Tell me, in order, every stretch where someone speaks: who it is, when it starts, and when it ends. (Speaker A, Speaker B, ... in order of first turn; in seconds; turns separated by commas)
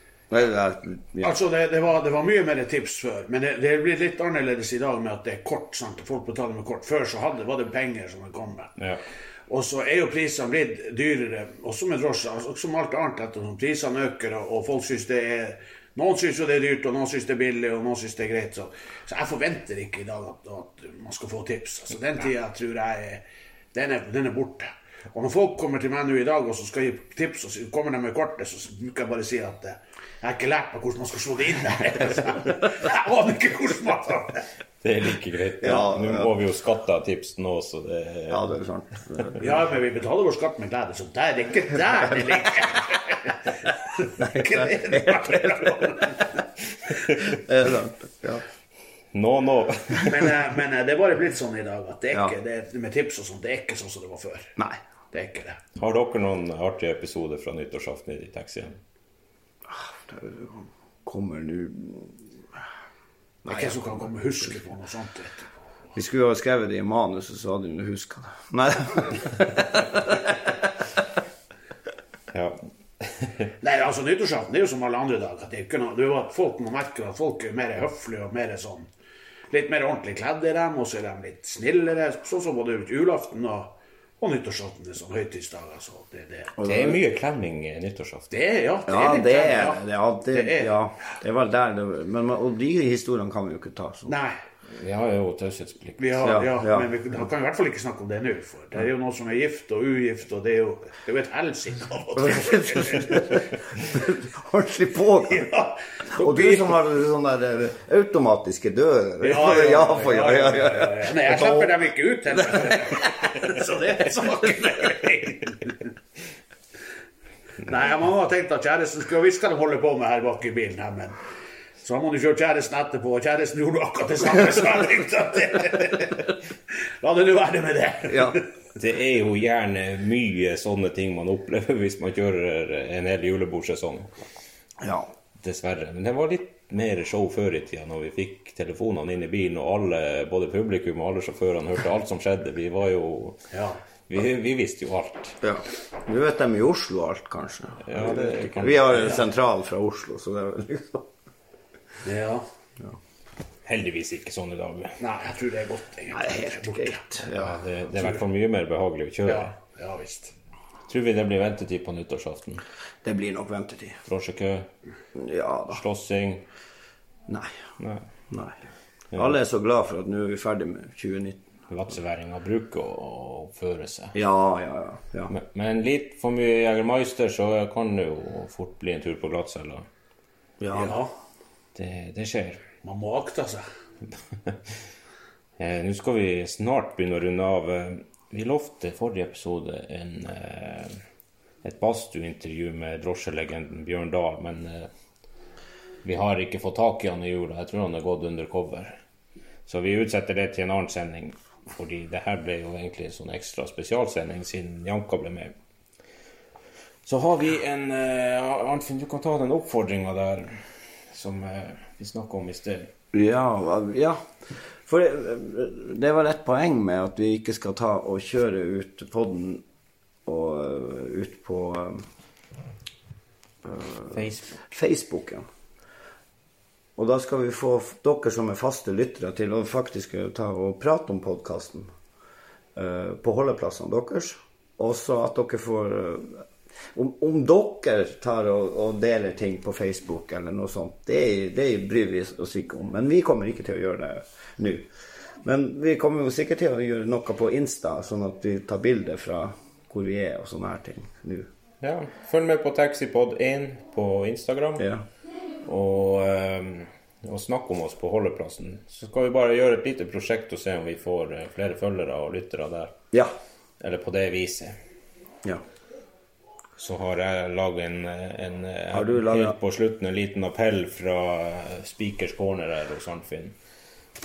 Speaker A: 0.3-1.4, Speaker B: 1.2-8.7, Speaker B: 9.5-23.2, Speaker B: 23.7-34.4, Speaker C: 34.8-38.6, Speaker A: 35.6-36.3, Speaker A: 38.3-39.5, Speaker B: 39.4-46.4, Speaker A: 44.2-45.2, Speaker C: 46.7-47.4, Speaker A: 47.2-48.4, Speaker C: 49.1-50.2, Speaker B: 50.1-54.5, Speaker B: 55.1-55.6, Speaker C: 55.8-58.8, Speaker A: 59.7-62.2, Speaker A: 63.5-64.1, Speaker B: 63.5-65.5, Speaker A: 66.0-70.6, Speaker C: 72.3-73.5, Speaker B: 73.6-78.9, Speaker B: 79.5-86.6, Speaker A: 86.6-87.0, Speaker C: 86.6-88.4, Speaker B: 88.3-90.8, Speaker A: 88.9-94.2, Speaker B: 94.1-94.4, Speaker C: 94.7-96.1, Speaker B: 96.0-103.3, Speaker A: 96.2-96.9, Speaker A: 102.2-105.5, Speaker B: 105.2-106.9, Speaker A: 106.2-111.8, Speaker B: 109.2-115.9, Speaker A: 112.3-113.0, Speaker B: 117.6-121.2, Speaker B: 121.8-128.5, Speaker A: 128.1-128.4, Speaker C: 128.8-134.1, Speaker A: 134.8-135.1, Speaker C: 135.4-143.4, Speaker B: 143.5-143.8, Speaker C: 144.1-145.4, Speaker A: 145.4-151.1, Speaker C: 147.8-149.1, Speaker B: 148.9-149.3, Speaker B: 152.0-152.4, Speaker C: 153.7-155.0, Speaker B: 155.0-157.1, Speaker A: 156.1-157.6, Speaker C: 157.3-159.5, Speaker B: 159.2-160.3, Speaker C: 160.9-162.6, Speaker A: 163.0-164.0, Speaker C: 164.0-164.7, Speaker A: 165.2-165.8, Speaker C: 165.7-166.4, Speaker C: 167.8-168.1, Speaker A: 168.3-168.6, Speaker A: 169.1-171.4, Speaker C: 171.7-174.2, Speaker A: 174.1-175.3, Speaker C: 175.3-179.8, Speaker A: 180.6-181.0, Speaker B: 180.7-181.1, Speaker C: 181.8-182.7, Speaker B: 182.8-183.6, Speaker C: 184.3-184.8, Speaker C: 185.6-190.9, Speaker C: 191.6-194.9, Speaker C: 196.0-199.0, Speaker C: 199.7-205.5, Speaker C: 207.1-210.6, Speaker C: 211.1-212.9, Speaker A: 213.1-214.2, Speaker A: 214.9-219.6, Speaker A: 220.3-222.0, Speaker A: 223.6-225.4, Speaker C: 224.1-224.6, Speaker A: 227.0-231.9, Speaker A: 232.8-236.4, Speaker A: 236.9-244.9, Speaker A: 245.4-251.5, Speaker C: 251.8-254.9, Speaker C: 255.7-263.0, Speaker C: 263.8-264.7, Speaker C: 266.8-273.6, Speaker A: 268.9-269.6